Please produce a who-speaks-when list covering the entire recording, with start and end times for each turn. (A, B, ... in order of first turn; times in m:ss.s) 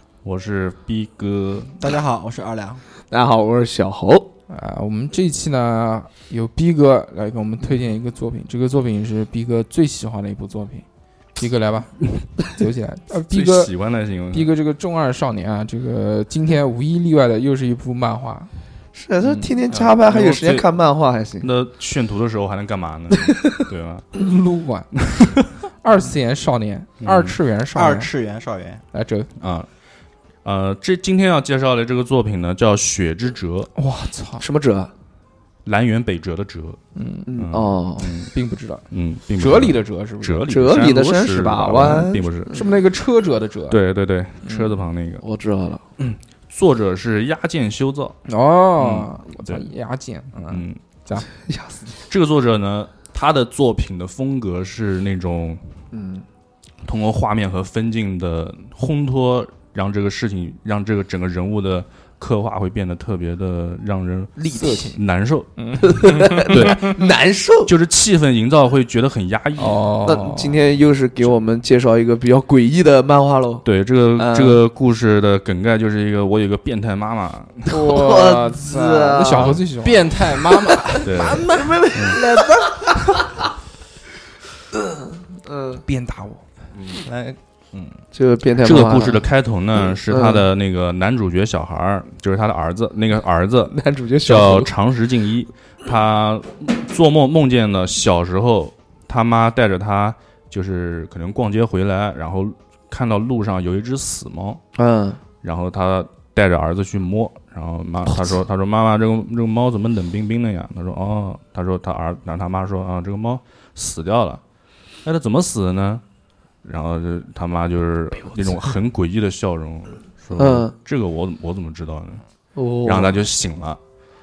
0:00.2-0:01.8 A
0:01.8-0:02.8 B
0:03.1-0:04.3 C
0:04.5-0:10.8 D
0:11.4-0:13.7 D
0:13.3-0:14.5 A
0:14.3-0:18.5 D
0:18.9-0:21.5 C
0:19.2-0:20.7 A
0:21.4-0:24.0 A
0:23.2-0:23.6 C
0:24.1-0:25.0 D
0:25.8-0:28.1 D
0:27.0-0:27.4 A
0:27.7-0:28.8 B
0:28.9-0:29.3 D
0:29.4-0:29.7 A
0:30.4-0:33.7 A
0:33.8-0:34.5 D
0:34.4-0:34.9 C
0:35.6-0:36.8 A
0:37.0-0:37.4 D
0:37.3-0:38.1 C
0:37.4-0:38.3 A
0:38.2-0:40.8 D
0:38.9-0:42.6 A
0:40.5-0:42.7 C
0:42.5-0:43.8 D
0:43.7-0:45.2 A
0:44.4-0:44.8 D
0:45.2-0:45.8 C
0:46.0-0:48.2 A
0:48.2-0:51.3 D
0:48.8-0:49.7 A
0:50.5-0:50.8 A
0:51.2-0:52.0 C
0:52.1-0:55.6 A
0:55.9-0:56.3 C
0:56.8-1:05.5 A
1:04.4-1:05.0 D
1:05.6-1:06.7 D
1:05.8-1:07.7 C
1:06.5-1:07.0 A
1:07.6-1:09.9 A
1:09.6-1:10.6 D
1:10.0-1:14.6 C
1:13.6-1:17.8 A
1:17.7-1:20.1 D
1:17.7-1:19.6 C
1:19.3-1:19.6 A
1:19.8-1:22.6 B
1:20.5-1:23.1 C
1:21.0-1:22.2 A
1:25.5-1:25.8 C
1:25.8-1:26.4 D
1:26.9-1:27.4 B
1:28.1-1:29.3 C
1:28.6-1:44.6 A
1:29.9-1:30.5 C
1:33.7-1:34.7 C
1:44.8-1:45.2 C
1:45.4-1:54.4 A
1:55.0-1:56.0 A
1:56.6-2:02.2 A
1:58.4-1:58.7 C
2:00.4-2:00.7 C
2:02.6-2:03.2 C
2:02.8-2:03.8 A